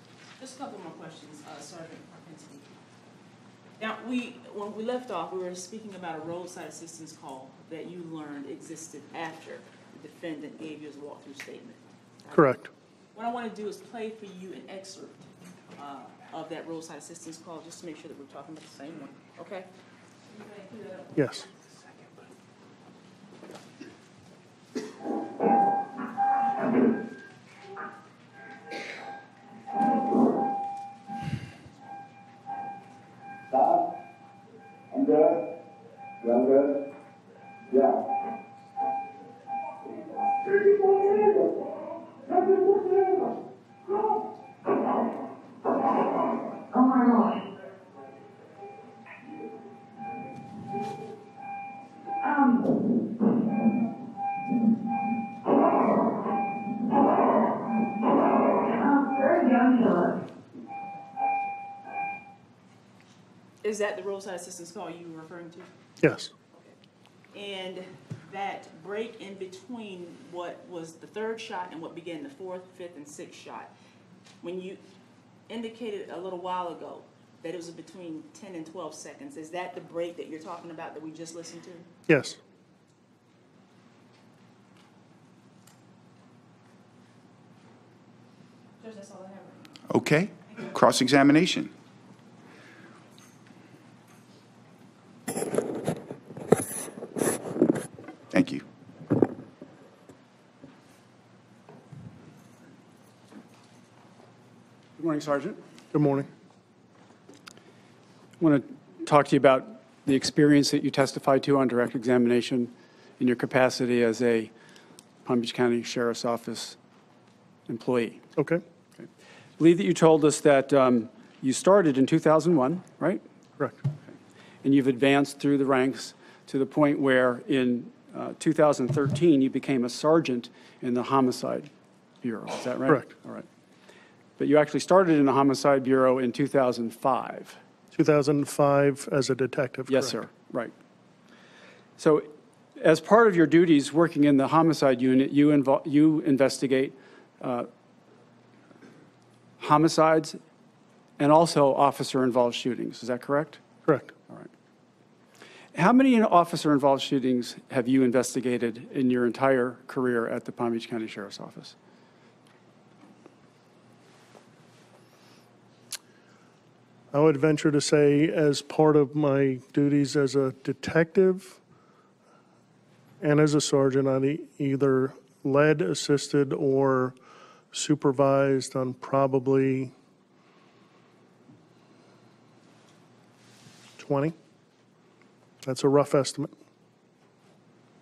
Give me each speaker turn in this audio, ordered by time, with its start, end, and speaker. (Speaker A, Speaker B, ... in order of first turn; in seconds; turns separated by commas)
Speaker A: 0.4-2.7, Speaker A: 3.8-12.4, Speaker B: 12.3-12.7, Speaker A: 13.1-19.7, Speaker A: 20.3-21.5, Speaker B: 21.1-21.4, Speaker A: 63.6-65.7, Speaker B: 66.0-66.3, Speaker A: 67.3-73.7, Speaker A: 74.4-74.8, Speaker A: 75.5-81.9, Speaker B: 82.1-82.4, Speaker A: 88.8-89.8, Speaker C: 89.9-91.7, Speaker C: 98.3-98.6, Speaker D: 105.0-105.6, Speaker B: 105.9-106.3, Speaker D: 108.4-114.5, Speaker D: 115.2-116.8, Speaker D: 117.7-118.2, Speaker B: 118.4-118.6, Speaker D: 119.6-123.2, Speaker B: 123.6-123.8, Speaker D: 124.6-131.7, Speaker D: 132.2-133.4, Speaker B: 132.9-133.2, Speaker D: 134.4-137.6, Speaker B: 137.9-140.1, Speaker D: 139.9-140.7, Speaker D: 142.0-147.7, Speaker D: 149.6-150.4, Speaker D: 151.2-153.6, Speaker B: 153.8-154.1, Speaker D: 155.7-161.7, Speaker B: 167.1-171.6, Speaker B: 173.2-177.2, Speaker B: 177.7-179.9, Speaker B: 184.0-184.3, Speaker B: 185.6-186.6